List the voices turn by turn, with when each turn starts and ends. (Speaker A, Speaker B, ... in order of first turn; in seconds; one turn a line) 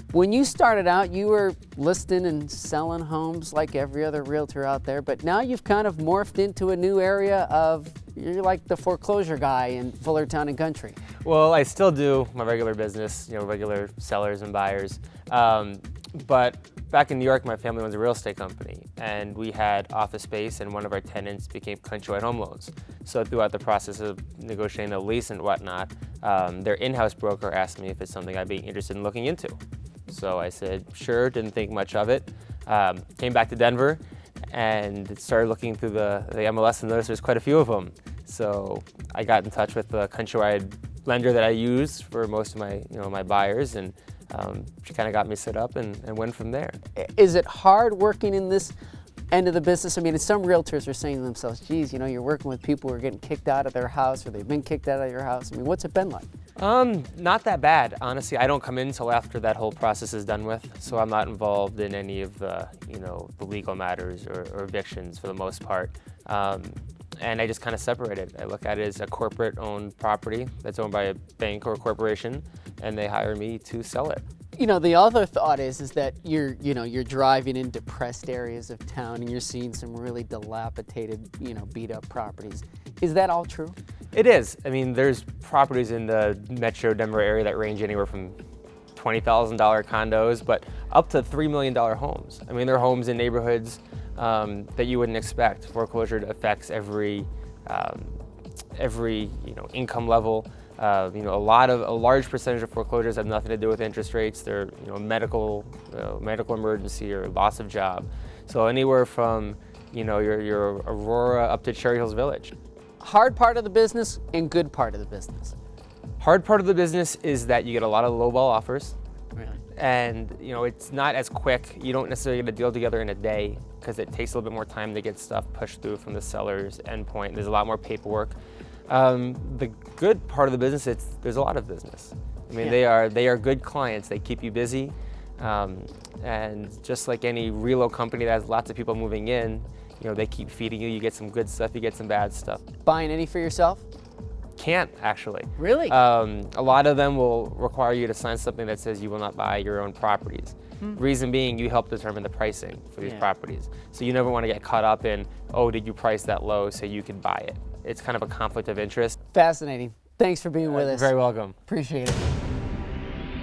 Speaker A: 0.1-11.0
Speaker B: 11.2-29.6
Speaker B: 30.1-46.8
Speaker A: 47.0-48.7
Speaker A: 49.3-56.3
Speaker B: 56.6-74.2
Speaker A: 74.5-83.8
Speaker B: 84.1-88.3
Speaker B: 88.9-98.2
Speaker B: 98.8-112.5
Speaker A: 113.0-115.5
Speaker B: 116.2-118.9
Speaker B: 119.8-128.4
Speaker B: 128.9-142.6
Speaker A: 142.8-143.8
Speaker B: 144.6-159.2
Speaker A: 145.6-145.9
Speaker A: 153.0-153.3
Speaker A: 159.3-161.1
Speaker B: 160.7-161.6
Speaker A: 161.7-162.3